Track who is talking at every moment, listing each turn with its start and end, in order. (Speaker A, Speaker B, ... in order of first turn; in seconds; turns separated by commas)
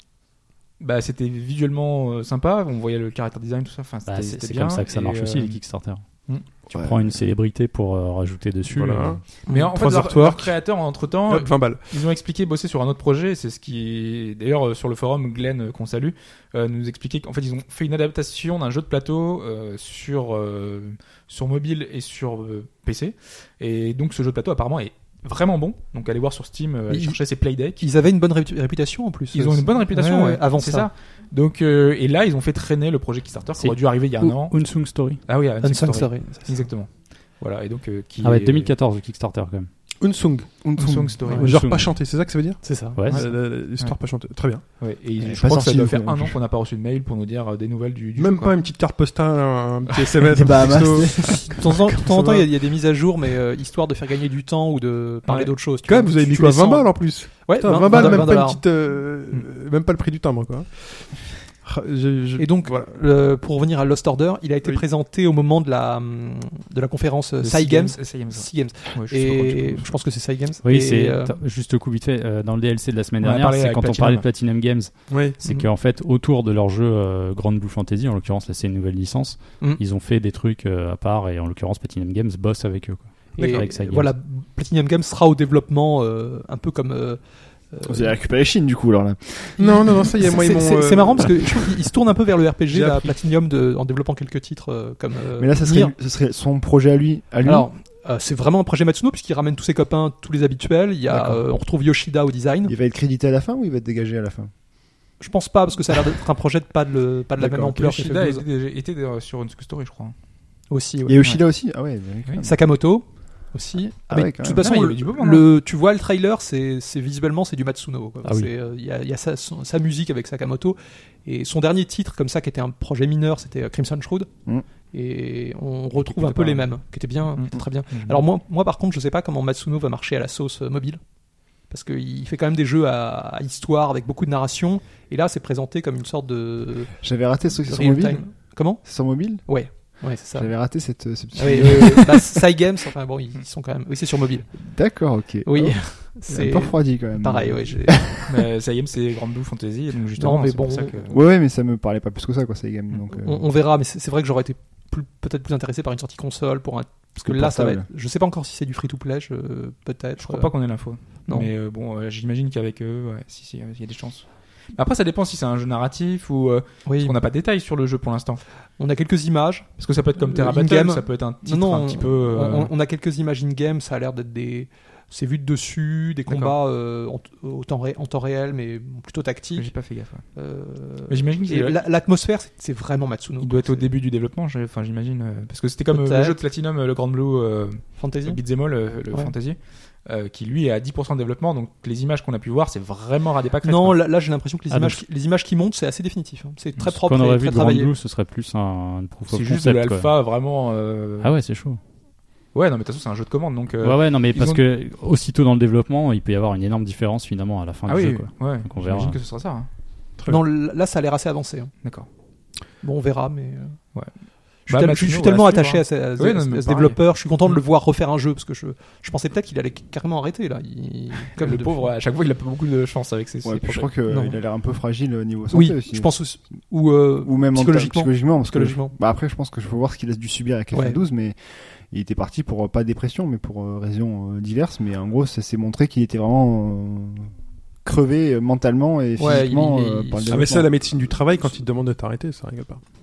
Speaker A: 0.8-5.6, Speaker B: 4.0-6.0, Speaker B: 6.7-9.3, Speaker C: 6.7-7.2, Speaker D: 8.7-10.6, Speaker A: 9.5-27.8, Speaker E: 9.5-9.7, Speaker D: 11.3-11.9, Speaker E: 26.9-27.2, Speaker E: 27.7-30.9, Speaker A: 29.3-38.7, Speaker B: 33.6-35.2, Speaker E: 35.6-36.7, Speaker B: 38.2-39.7, Speaker D: 40.0-40.5, Speaker C: 40.6-41.2, Speaker A: 40.8-41.5, Speaker B: 41.4-42.0, Speaker D: 41.4-44.6, Speaker E: 42.6-43.1, Speaker B: 42.9-43.4, Speaker A: 44.8-48.6, Speaker C: 45.2-46.4, Speaker D: 48.2-52.5, Speaker C: 50.3-51.7, Speaker E: 51.3-58.6, Speaker D: 55.3-63.0, Speaker A: 57.9-58.3, Speaker E: 62.4-71.4, Speaker A: 67.4-70.0, Speaker B: 70.6-84.2, Speaker A: 73.2-74.3, Speaker D: 75.1-75.4, Speaker E: 83.4-88.2, Speaker C: 87.8-90.1, Speaker D: 89.6-91.7, Speaker E: 90.2-95.9, Speaker D: 92.7-93.2, Speaker C: 95.3-97.7, Speaker E: 97.4-102.7, Speaker C: 101.1-101.4, Speaker C: 102.7-104.5, Speaker E: 105.2-108.5, Speaker C: 107.4-107.7, Speaker A: 107.5-110.1, Speaker E: 110.7-111.3, Speaker C: 111.1-112.6, Speaker E: 112.4-124.3, Speaker C: 114.1-114.6, Speaker A: 114.6-115.5, Speaker B: 118.2-118.5, Speaker E: 124.9-131.0, Speaker A: 127.4-128.2, Speaker E: 131.7-144.7, Speaker C: 137.0-142.3, Speaker C: 144.6-148.3, Speaker E: 145.4-148.1, Speaker A: 148.3-151.2, Speaker E: 150.2-151.1, Speaker C: 151.1-153.5, Speaker E: 153.1-160.6, Speaker C: 157.2-157.9, Speaker A: 160.2-168.4, Speaker E: 166.9-167.2, Speaker E: 168.8-179.7, Speaker A: 169.8-172.7, Speaker A: 176.3-176.6, Speaker A: 179.6-180.3, Speaker E: 180.3-183.9, Speaker A: 181.1-181.8, Speaker A: 183.4-194.1, Speaker E: 185.9-186.4, Speaker E: 188.0-188.4, Speaker E: 193.6-197.9, Speaker B: 194.7-195.0, Speaker B: 196.9-200.1, Speaker A: 199.3-201.3, Speaker B: 201.2-201.8, Speaker A: 202.5-204.6, Speaker B: 203.8-209.2, Speaker A: 207.9-209.7, Speaker D: 210.2-210.4, Speaker E: 210.3-211.7, Speaker E: 212.8-213.8, Speaker A: 213.9-217.6, Speaker E: 214.7-221.9, Speaker A: 221.4-223.9, Speaker C: 223.4-226.4, Speaker E: 224.1-224.4, Speaker E: 225.5-228.9, Speaker C: 227.2-237.3, Speaker E: 230.7-231.0, Speaker C: 237.8-241.1, Speaker E: 239.2-240.5, Speaker D: 240.3-242.9